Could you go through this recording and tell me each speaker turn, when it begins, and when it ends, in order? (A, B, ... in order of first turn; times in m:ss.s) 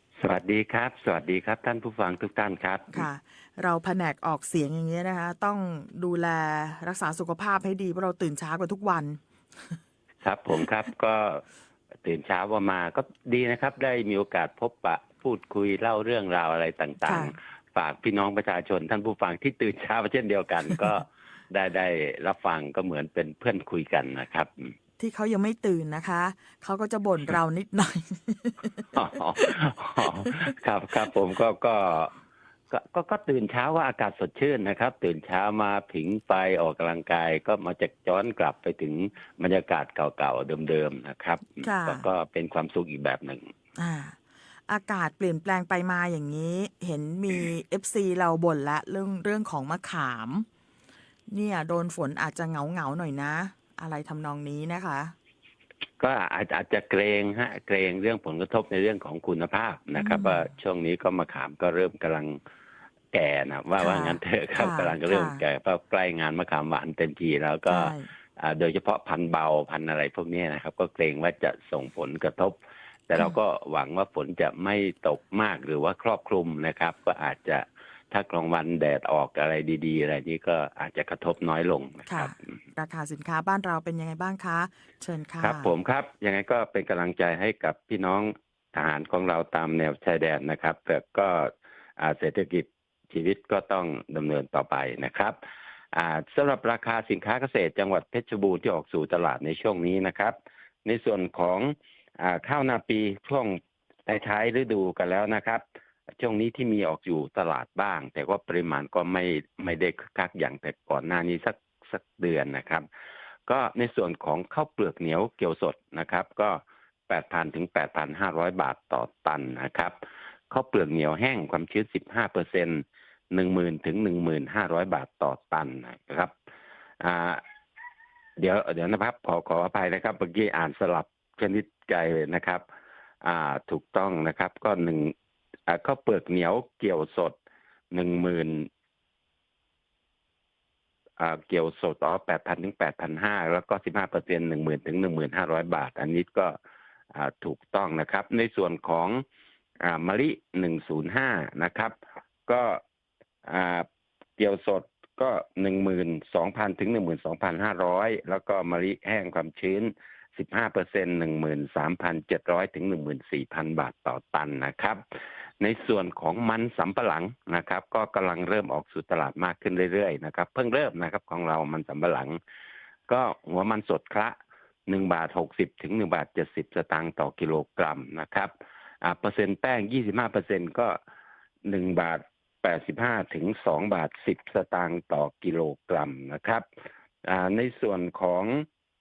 0:00.2-0:03.1 A
0:02.9-0:09.8 B
0:10.2-0:11.4 A
0:12.0-0:24.7 A
0:17.0-0:17.3 B
0:25.0-0:29.6 B
0:28.9-0:32.1 A
0:30.2-0:30.4 B
0:32.7-0:43.5 A
0:41.6-0:42.0 B
0:43.8-0:50.5 B
0:51.3-0:55.2 B
0:56.0-1:02.4 A
1:00.0-1:00.5 B
1:03.1-1:22.3 A
1:03.8-1:05.4 B
1:07.7-1:08.1 B
1:22.1-1:25.7 B
1:25.4-1:35.4 A
1:35.9-1:45.6 A
1:46.2-1:52.8 A
1:53.5-2:00.0 A
2:00.5-2:06.3 A
2:07.0-2:07.4 A
2:08.4-2:12.6 A
2:13.2-2:15.1 A
2:15.7-2:17.4 A
2:17.9-2:18.7 A
2:21.2-2:26.6 A
2:27.1-2:29.2 A
2:29.8-2:32.0 A
2:32.5-2:32.8 A
2:33.4-2:33.9 A
2:34.4-2:45.0 A
2:45.6-2:52.4 A
2:53.1-2:54.4 A
2:54.9-2:58.5 A
2:59.0-3:01.0 A
3:01.6-3:06.6 A
3:07.2-3:08.7 A